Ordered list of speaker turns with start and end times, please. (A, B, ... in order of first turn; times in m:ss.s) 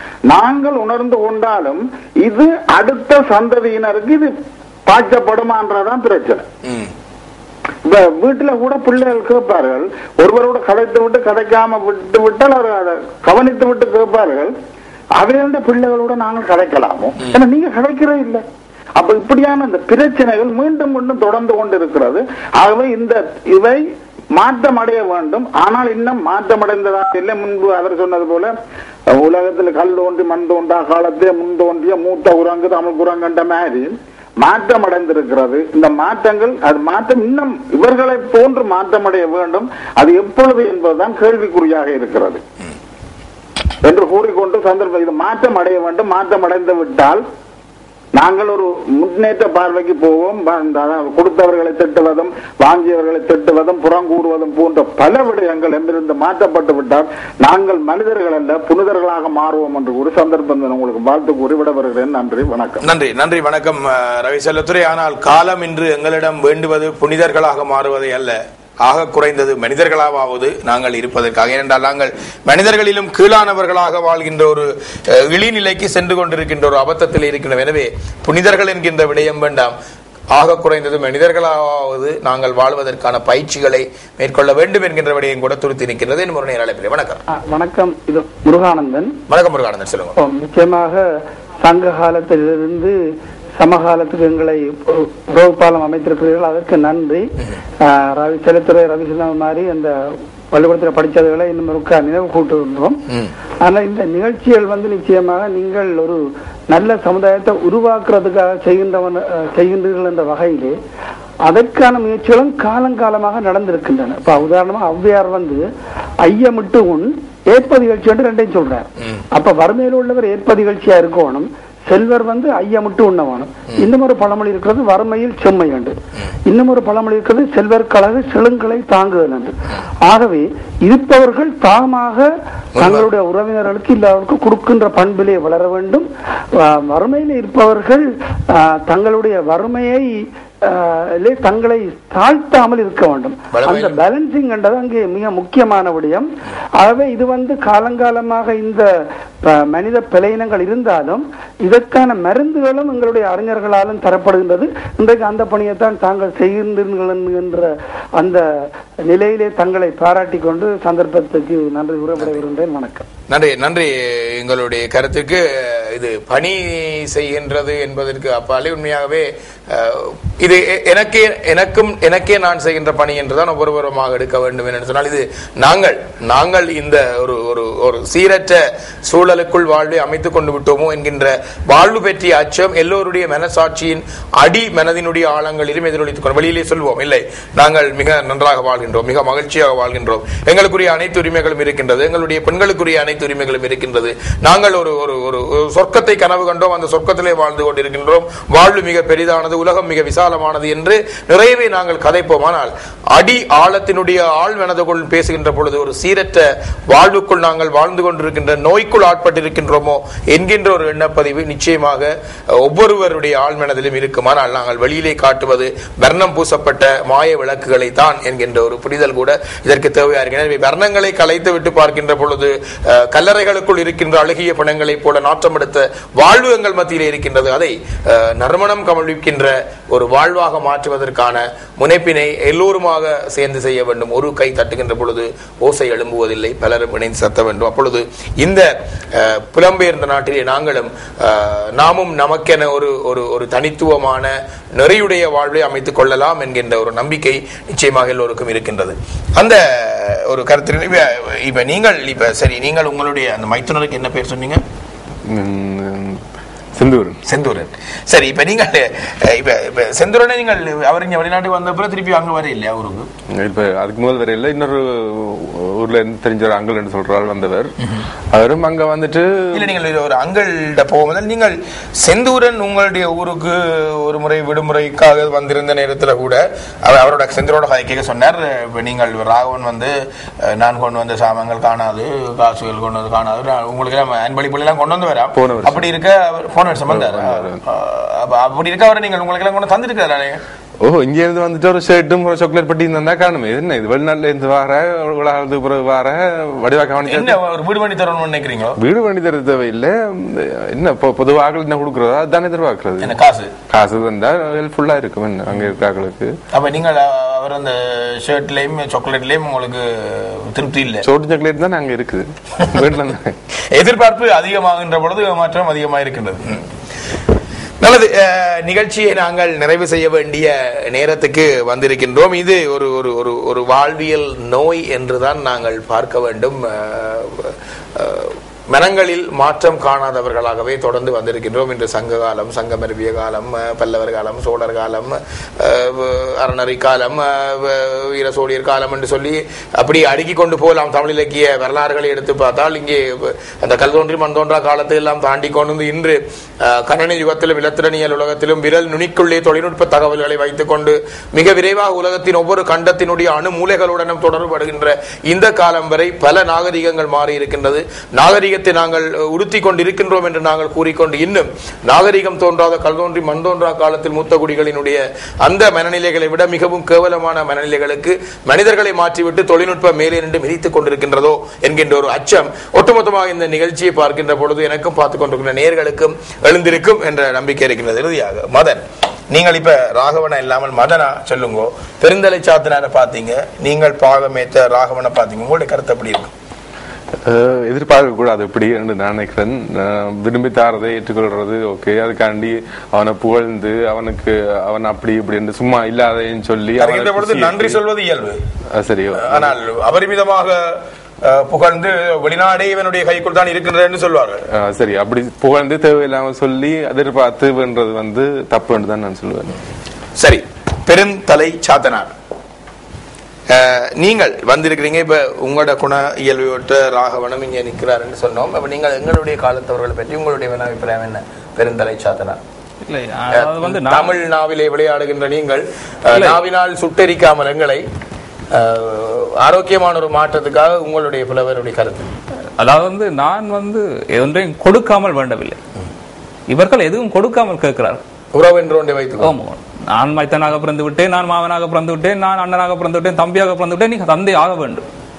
0:00.3-0:04.3 A
0:04.9-0:06.4 A
0:07.8-0:14.5 A
0:15.2-0:18.4 A
0:19.0-0:23.8 A
0:24.3-0:28.5 A
0:29.1-0:42.4 A
0:43.8-0:47.2 A
0:48.1-1:02.8 A
1:02.8-1:19.7 B
1:20.3-1:27.2 B
1:27.3-1:29.1 C
1:29.3-1:30.1 B
1:30.2-1:31.0 C
1:31.6-1:32.9 C
1:33.6-1:37.3 C
1:37.8-1:39.9 C
1:40.5-1:43.0 C
1:43.6-1:46.2 C
1:46.7-1:50.7 C
1:51.5-1:55.6 C
1:56.2-2:05.9 C
2:06.4-2:09.5 C
2:10.0-2:16.0 C
2:12.7-2:13.1 B
2:16.6-2:20.1 C
2:20.6-2:26.3 C
2:23.5-2:24.0 B
2:26.8-2:28.8 C
2:29.5-2:38.4 C
2:39.1-2:43.0 C
2:43.3-4:14.6 B
4:15.3-4:16.2 D
4:16.8-4:17.2 D
4:17.2-4:23.1 B
4:23.3-4:27.7 D
4:28.3-4:29.7 D
4:29.5-4:50.4 B
4:45.3-4:45.9 D
4:46.9-4:47.6 D
4:50.8-4:57.4 D
4:57.0-4:58.8 B
4:58.8-5:03.1 D
5:03.0-5:03.5 B
5:03.7-5:06.3 D
5:06.5-5:11.0 B
5:11.0-5:13.4 D
5:13.7-5:16.6 B
5:17.8-6:26.3 B
6:27.2-6:37.8 D
6:36.8-6:38.4 B
6:38.7-6:39.5 D
6:39.2-6:44.4 B
6:44.5-6:49.6 D
6:50.2-6:52.1 B
6:53.5-7:02.4 B
7:02.8-7:04.2 E
7:03.3-7:07.8 B
7:08.5-7:12.1 B
7:12.6-7:15.6 E
7:16.5-7:18.0 E
7:18.3-7:19.3 B
7:19.2-7:24.8 E